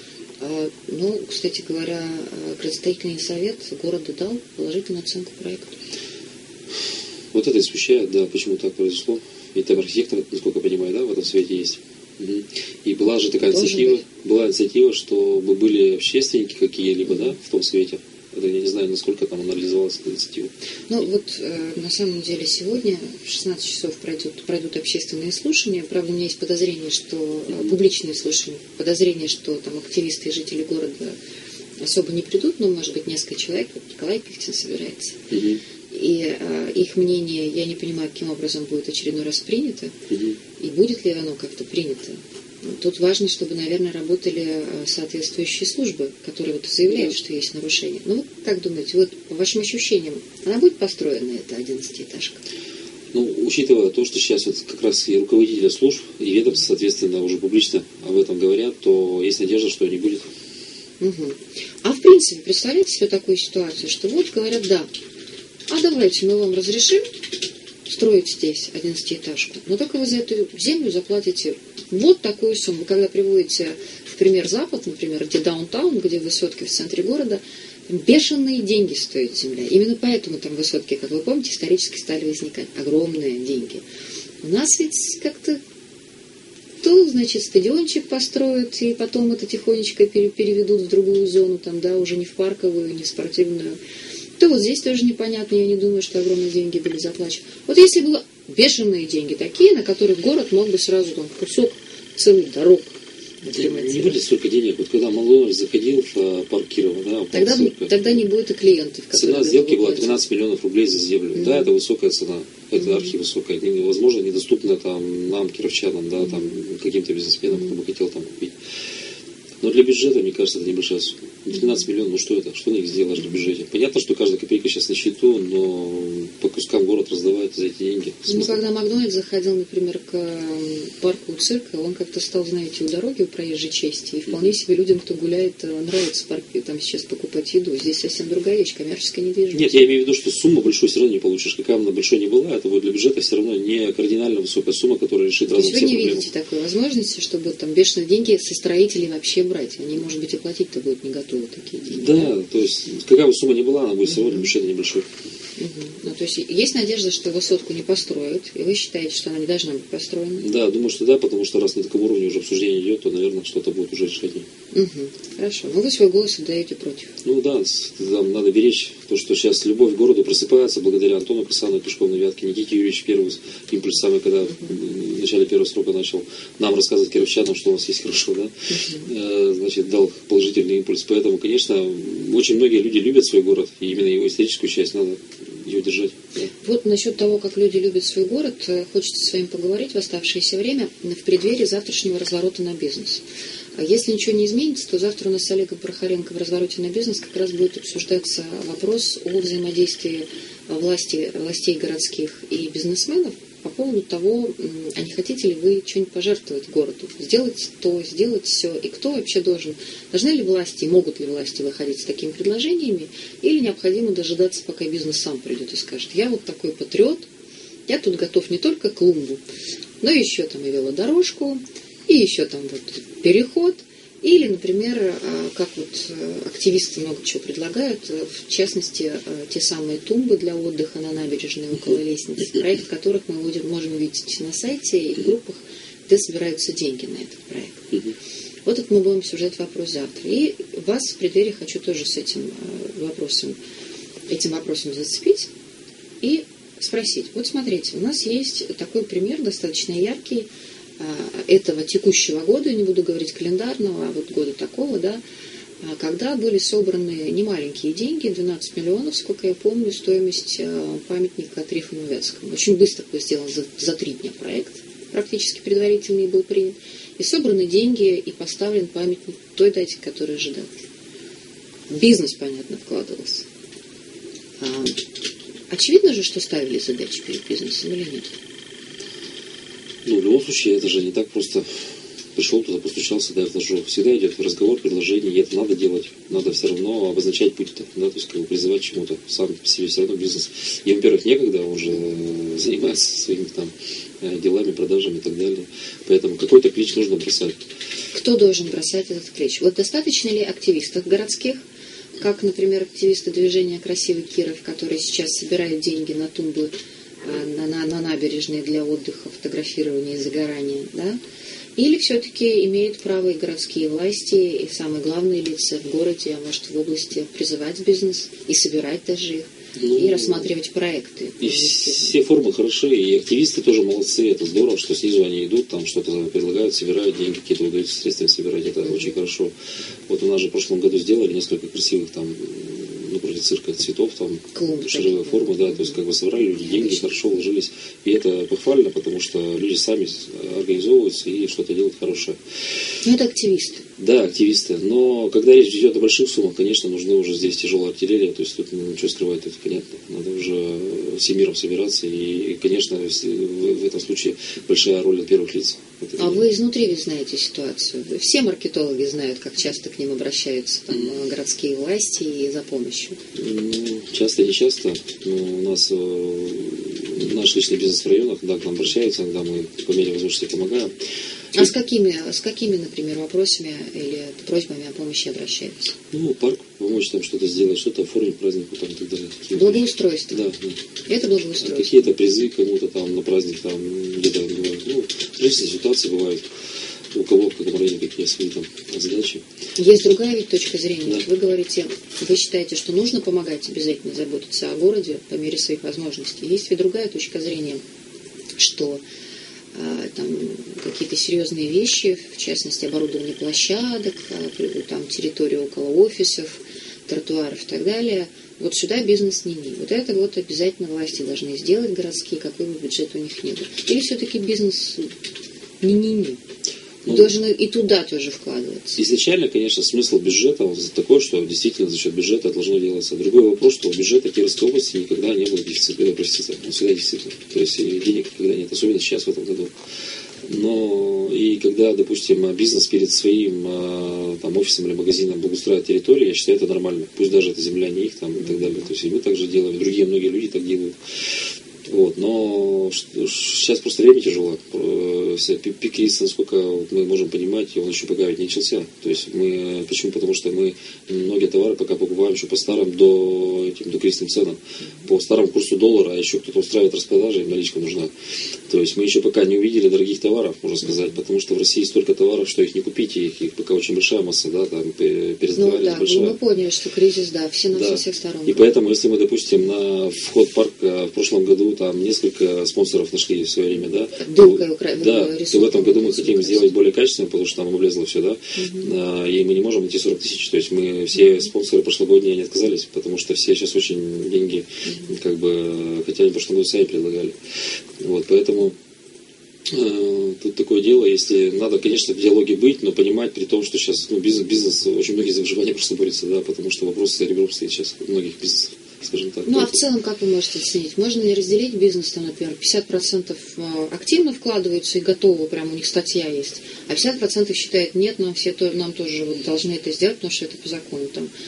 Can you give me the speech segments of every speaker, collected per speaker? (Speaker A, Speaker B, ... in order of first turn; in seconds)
Speaker A: 0.4-5.8, 13.4-14.0, 20.9-31.2, 31.8-35.2, 35.9-40.0, 40.6-52.4, 61.0-64.9, 65.7-67.2, 67.9-83.8, 84.4-85.6, 86.8-93.8, 94.4-104.2, 107.3-110.2, 111.3-111.7, 112.8-113.1, 128.3-139.8, 145.5-152.3, 154.1-154.5, 155.6-160.5, 164.7-167.1, 178.7-179.1, 186.6-193.2, 193.8-217.3, 217.9-219.4, 220.0-238.0, 238.7-243.6, 244.3-245.5, 246.2-255.2, 255.8-270.9, 271.9-273.4, 274.6-275.0, 275.7-278.3, 298.1-301.6, 302.2-311.2, 311.8-322.1, 334.5-336.0, 336.6-337.0, 343.0-343.8, 356.2-363.2, 371.6-375.9, 379.5-380.4, 381.1-382.1, 389.8-397.8, 398.6-399.0, 399.7-415.1, 415.8-416.4, 417.1-419.0, 465.5-468.7, 474.2-476.7, 478.6-478.9, 484.9-485.1, 499.5-511.3
Speaker B: 7.3-20.5, 35.3-35.6, 40.1-40.4, 46.9-47.1, 53.1-60.3, 103.5-108.2, 109.1-118.5, 119.6-128.6, 139.5-146.3, 151.9-155.1, 160.4-164.5, 167.2-178.5, 179.0-186.5, 280.1-281.6, 282.4-297.6, 319.8-320.5, 321.4-329.5, 330.1-342.4, 344.0-356.4, 363.4-370.9, 376.1-380.8, 381.6-386.5, 387.1-389.4, 417.0-417.3, 419.0-429.7, 430.5-441.0, 441.8-458.1, 458.7-466.4, 467.7-487.3, 488.0-488.8, 489.7-499.8